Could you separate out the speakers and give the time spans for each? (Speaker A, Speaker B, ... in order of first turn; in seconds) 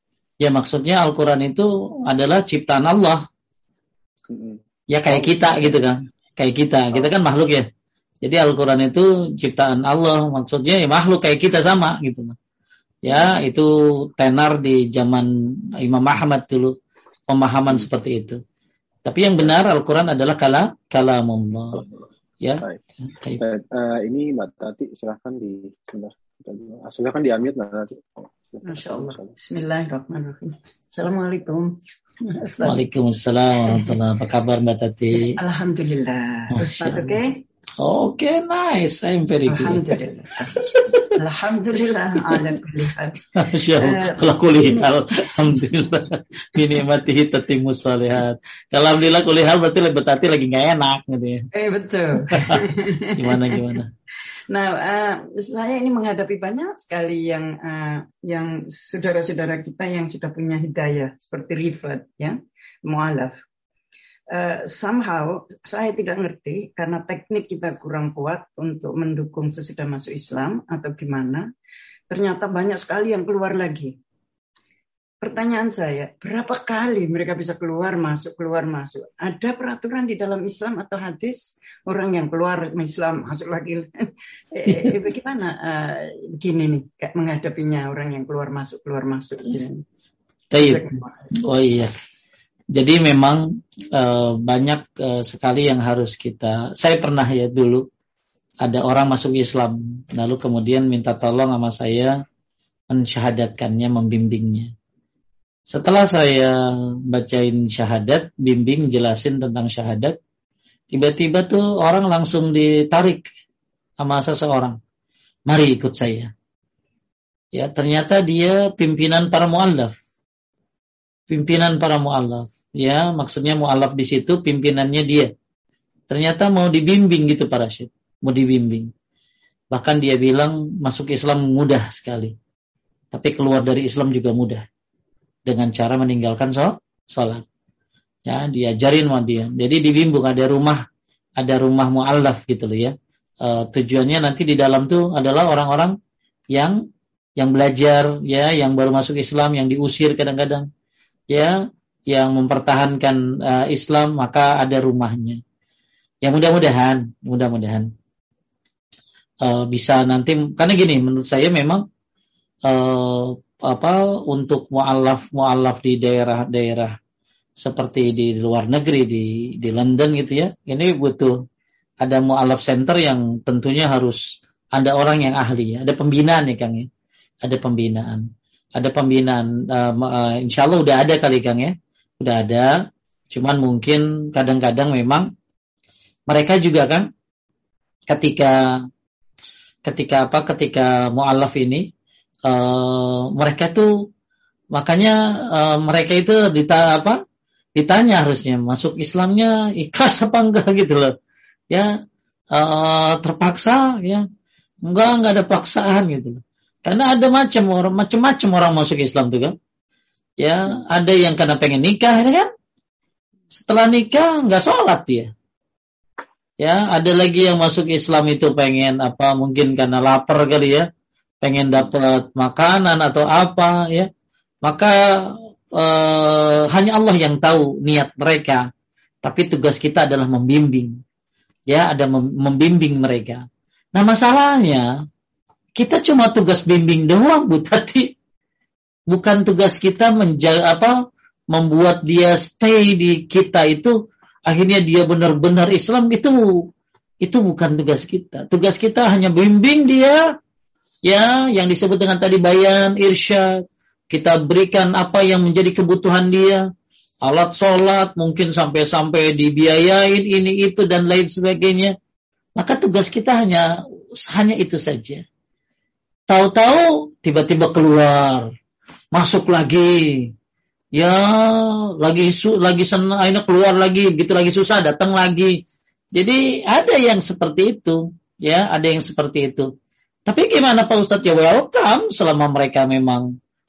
Speaker A: 0.4-3.2, 4.9-7.7, 8.2-12.3, 13.0-16.7, 17.3-18.4, 19.0-21.8, 22.4-23.4, 32.6-35.4, 36.5-37.2, 37.8-40.0, 40.7-41.1, 42.3-42.6, 43.3-51.5, 52.3-53.9, 84.7-84.9, 90.5-90.8, 91.4-91.9, 92.7-97.8, 98.6-102.2, 102.9-104.7, 105.7-106.5, 107.1-110.2, 110.9-113.2, 114.0-114.8, 115.5-116.3, 117.5-120.0, 121.3-125.3, 126.1-128.9, 129.7-132.3, 133.1-134.6, 135.4-137.4, 138.2-140.8, 141.4-145.9, 147.4-150.7, 151.3-151.6, 152.1-155.4, 156.2-157.9, 159.4-161.8, 162.7-167.0, 167.6-171.3, 172.0-174.2, 174.7-176.9, 177.4-178.2, 178.8-182.7, 183.3-185.3, 186.3-187.1, 188.1-188.6, 189.8-191.9, 192.5-194.1, 194.7-197.2, 197.8-201.1, 202.5-204.2, 204.8-209.5, 210.4-212.5, 213.5-215.3, 216.6-220.9, 221.4-224.1, 224.6-228.6, 229.2-230.9, 231.7-234.9, 235.8-238.1, 239.1-240.9, 241.5-243.9, 244.5-246.7, 247.2-250.2, 251.1-256.6, 257.2-261.9, 262.6-265.2, 266.3-268.5, 269.1-270.3, 270.9-275.6, 276.1-279.7, 280.3-283.3
Speaker B: 4.3-5.8, 13.1-13.4, 23.4-29.3
Speaker C: 28.6-32.8, 33.6-34.0, 35.1-37.4, 39.5-43.2, 43.8-44.9, 51.5-53.7, 54.5-63.4, 64.3-71.5, 72.1-73.9, 75.2-89.8, 90.6-91.3